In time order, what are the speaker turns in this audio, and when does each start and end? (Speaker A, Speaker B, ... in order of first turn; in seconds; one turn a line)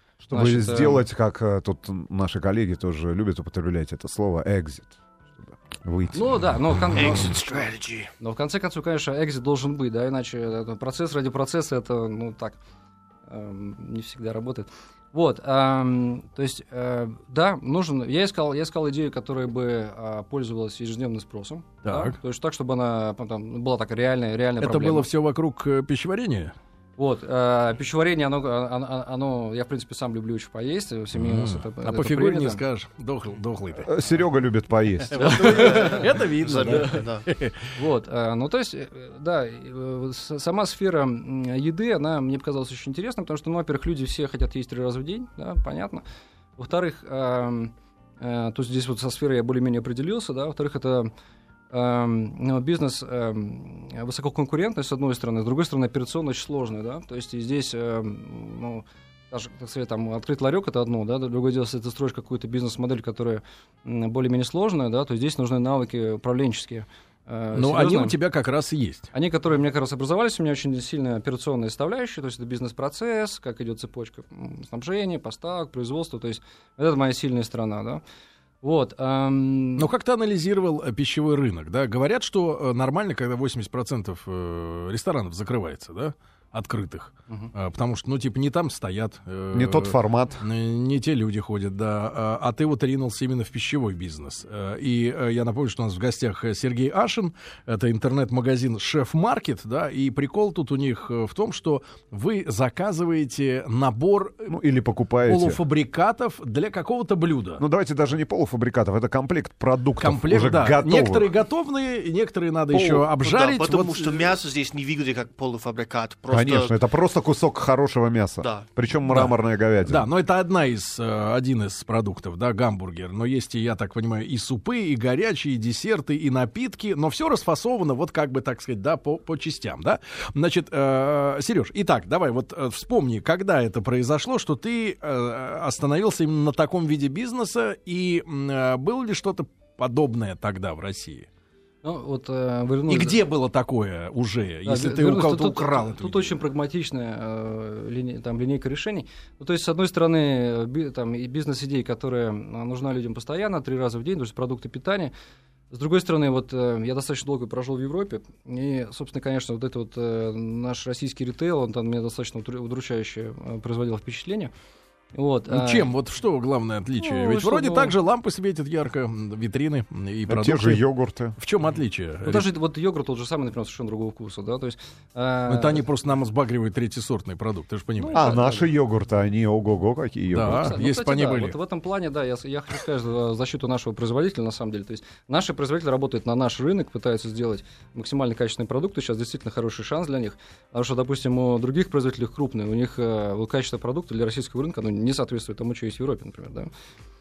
Speaker A: 0.2-6.4
Speaker B: 0.3-1.0
Speaker B: 6.1-7.7
Speaker C: 7.0-8.1
Speaker B: 8.2-12.6
Speaker B: 13.3-25.1
Speaker D: 21.8-22.1
Speaker D: 24.6-26.5
Speaker B: 27.0-32.6
Speaker D: 31.1-33.9
Speaker A: 33.9-35.5
Speaker D: 35.1-37.7
Speaker C: 35.2-37.2
Speaker B: 35.2-35.8
Speaker B: 37.7-46.0
Speaker B: 46.6-51.1
Speaker B: 51.7-68.2
Speaker D: 67.5-69.1
Speaker B: 69.1-78.0
Speaker B: 78.6-79.9
Speaker D: 79.8-104.5
Speaker A: 89.5-90.4
Speaker A: 104.5-105.6
Speaker D: 105.2-107.6
Speaker A: 107.6-111.3
Speaker D: 110.0-114.4
Speaker C: 112.9-116.7
Speaker A: 116.3-120.1
Speaker C: 118.4-118.7
Speaker D: 119.1-141.3
Speaker B: 141.8-143.2
Speaker D: 142.9-146.4
Speaker B: 144.6-155.1
Speaker B: 155.7-164.5
Speaker B: 165.1-165.9
Speaker D: 165.5-170.8
Speaker B: 167.0-167.9
Speaker A: 170.3-171.4
Speaker D: 171.4-172.5
Speaker B: 172.2-175.8
Speaker D: 175.5-178.3
Speaker B: 178.0-178.7
Speaker A: 178.1-180.7
Speaker D: 180.3-181.6
Speaker B: 180.5-196.7